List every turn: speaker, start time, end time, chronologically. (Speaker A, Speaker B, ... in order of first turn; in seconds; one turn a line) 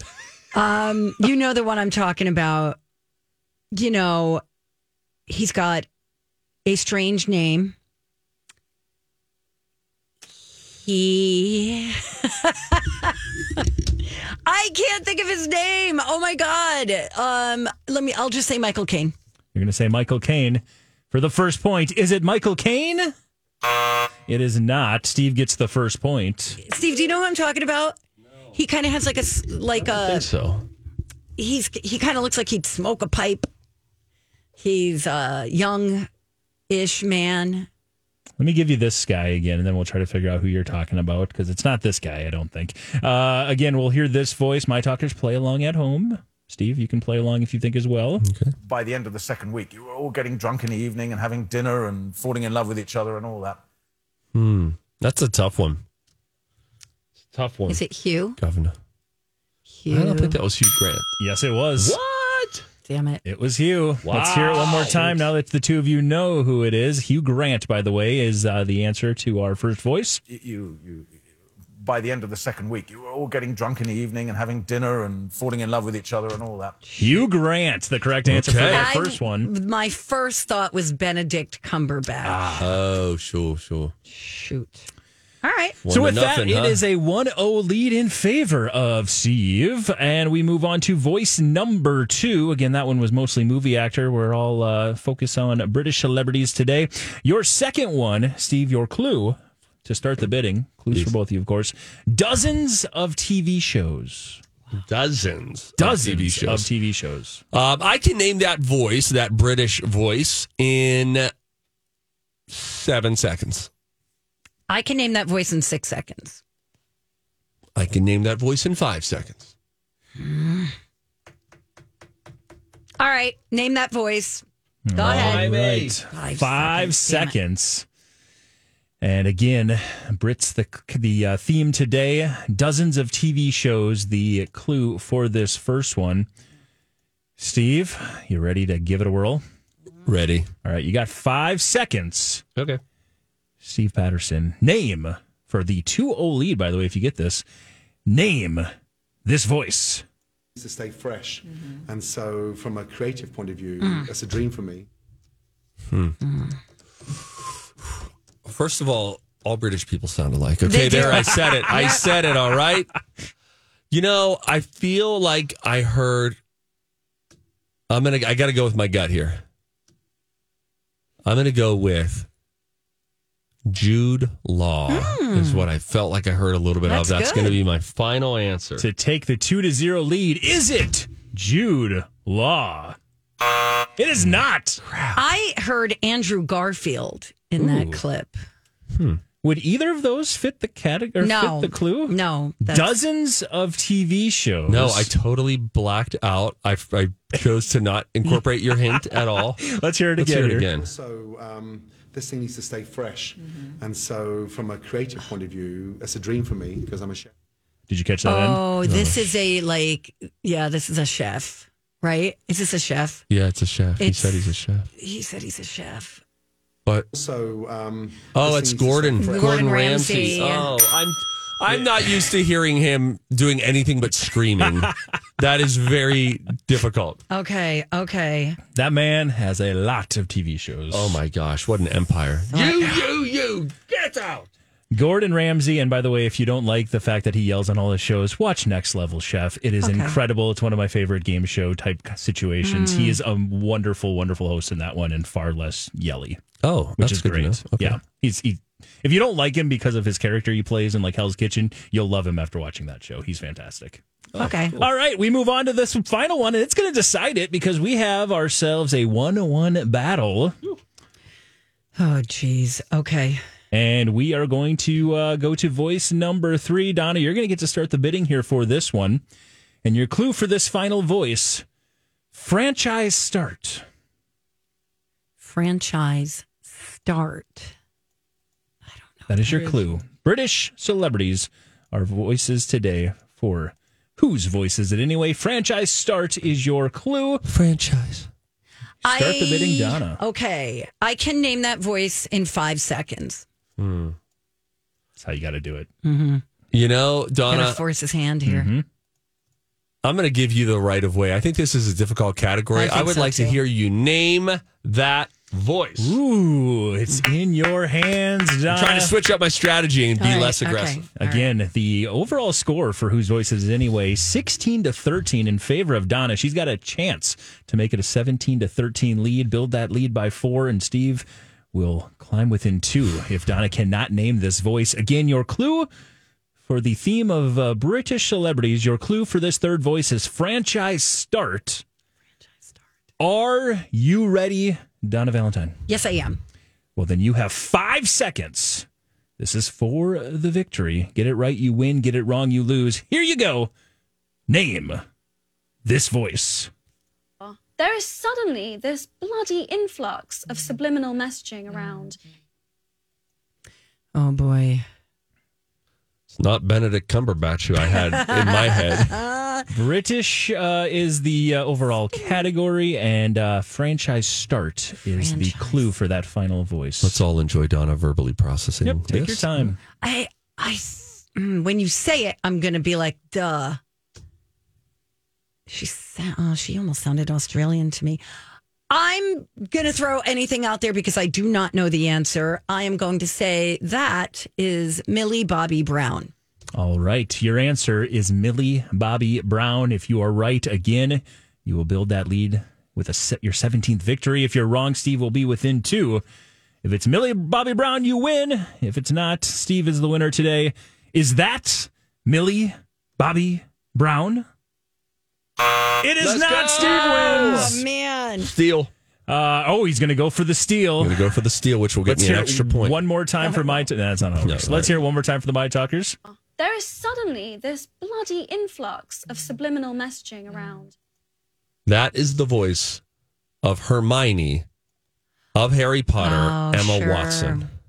Speaker A: 0.5-2.8
Speaker A: 3.7-4.4
Speaker A: 5.3-5.9
Speaker A: 6.7-7.7
Speaker A: 10.7-19.1
Speaker B: 19.5-23.1
Speaker B: 24.3-26.6
Speaker A: 26.6-28.0
Speaker A: 28.5-30.3
Speaker C: 29.8-30.6
Speaker A: 31.4-33.5
Speaker A: 34.6-36.1
Speaker A: 36.7-37.7
Speaker B: 38.4-48.2
Speaker C: 48.2-48.5
Speaker D: 48.6-53.6
Speaker C: 54.3-55.8
Speaker C: 57.3-57.8
Speaker A: 57.7-58.4
Speaker C: 58.4-58.7
Speaker A: 59.7-60.4
Speaker C: 59.9-61.1
Speaker B: 61.2-62.0
Speaker C: 61.8-62.6
Speaker A: 62.9-63.2
Speaker B: 63.2-70.2
Speaker C: 64.0-65.3
Speaker D: 70.3-71.1
Speaker D: 71.8-76.8
Speaker A: 76.8-77.2
Speaker B: 77.0-79.5
Speaker C: 78.3-78.9
Speaker A: 78.7-82.6
Speaker B: 82.2-82.7
Speaker C: 82.6-83.9
Speaker A: 84.1-84.9
Speaker A: 85.4-85.8
Speaker C: 85.8-86.8
Speaker B: 85.9-104.4
Speaker C: 104.7-106.7
Speaker B: 105.8-107.4
Speaker C: 107.5-111.3
Speaker C: 112.5-113.7
Speaker A: 114.7-116.4
Speaker C: 117.8-119.5
Speaker A: 120.2-120.7
Speaker A: 123.0-125.5
Speaker B: 124.9-127.8
Speaker C: 125.0-126.0
Speaker A: 126.1-127.3
Speaker B: 129.0-136.3
Speaker B: 137.4-139.4
Speaker C: 140.1-140.5
Speaker B: 140.6-142.4
Speaker B: 143.6-147.4
Speaker B: 148.1-148.7
Speaker B: 149.2-150.0
Speaker E: 150.5-154.9
Speaker A: 153.8-154.1
Speaker C: 155.9-156.2
Speaker A: 156.2-156.5
Speaker C: 158.4-162.9
Speaker A: 160.6-162.1
Speaker C: 163.9-166.4
Speaker C: 167.9-169.4
Speaker C: 171.2-172.3
Speaker C: 173.7-178.9
Speaker A: 174.9-175.6
Speaker A: 176.8-177.6
Speaker B: 178.8-183.0
Speaker B: 184.0-184.8
Speaker A: 185.1-188.4
Speaker B: 187.6-188.0
Speaker C: 188.9-189.2
Speaker B: 189.4-195.1
Speaker A: 191.2-192.9
Speaker C: 194.7-199.6
Speaker B: 198.9-200.7
Speaker C: 200.2-200.9
Speaker E: 200.7-207.3
Speaker B: 207.9-208.6
Speaker A: 208.2-213.2
Speaker C: 208.8-209.2
Speaker C: 213.3-214.9
Speaker A: 214.0-216.2
Speaker E: 217.1-219.8
Speaker C: 218.3-227.2
Speaker A: 219.2-220.7
Speaker A: 227.3-228.6
Speaker B: 228.7-231.2
Speaker C: 230.9-234.5
Speaker A: 232.5-233.0
Speaker B: 234.9-246.4
Speaker A: 239.8-240.2
Speaker A: 242.6-243.2
Speaker C: 246.6-248.0
Speaker B: 247.0-260.6
Speaker A: 254.4-254.8
Speaker C: 254.4-254.8
Speaker A: 262.0-263.4
Speaker B: 263.7-269.2
Speaker B: 269.8-271.6
Speaker B: 272.3-273.8
Speaker A: 275.4-277.7
Speaker A: 278.9-279.9
Speaker B: 279.3-287.4
Speaker C: 287.4-288.3
Speaker B: 289.0-290.2
Speaker A: 289.0-293.4
Speaker C: 293.8-294.2
Speaker B: 295.2-295.9
Speaker A: 296.0-296.4
Speaker C: 296.7-297.8
Speaker A: 297.5-298.7
Speaker B: 298.4-298.8
Speaker C: 300.0-306.2
Speaker A: 302.7-303.6
Speaker B: 306.0-309.1
Speaker C: 308.7-311.0
Speaker A: 310.2-311.5
Speaker B: 311.2-325.9
Speaker B: 326.6-331.8
Speaker B: 333.2-335.8
Speaker A: 335.9-336.4
Speaker B: 336.9-338.9
Speaker B: 339.4-343.7
Speaker B: 344.5-345.0
Speaker B: 345.8-346.7
Speaker F: 347.4-352.2
Speaker A: 354.1-354.8
Speaker C: 356.3-359.1
Speaker A: 358.2-359.7
Speaker B: 359.7-367.2
Speaker A: 365.1-365.9
Speaker C: 367.0-369.5
Speaker B: 368.8-369.8
Speaker A: 370.0-373.8
Speaker A: 375.7-378.2
Speaker A: 378.9-386.3
Speaker B: 386.7-396.2
Speaker B: 396.8-404.4
Speaker B: 406.0-407.8
Speaker C: 406.2-407.8
Speaker A: 406.8-408.5
Speaker C: 408.4-408.9
Speaker B: 409.3-411.3
Speaker C: 411.0-413.0
Speaker B: 412.1-416.2
Speaker A: 413.4-413.9
Speaker C: 414.4-414.9
Speaker F: 416.2-420.9
Speaker C: 421.9-423.0
Speaker C: 423.6-424.6
Speaker C: 425.5-427.6
Speaker A: 426.2-427.7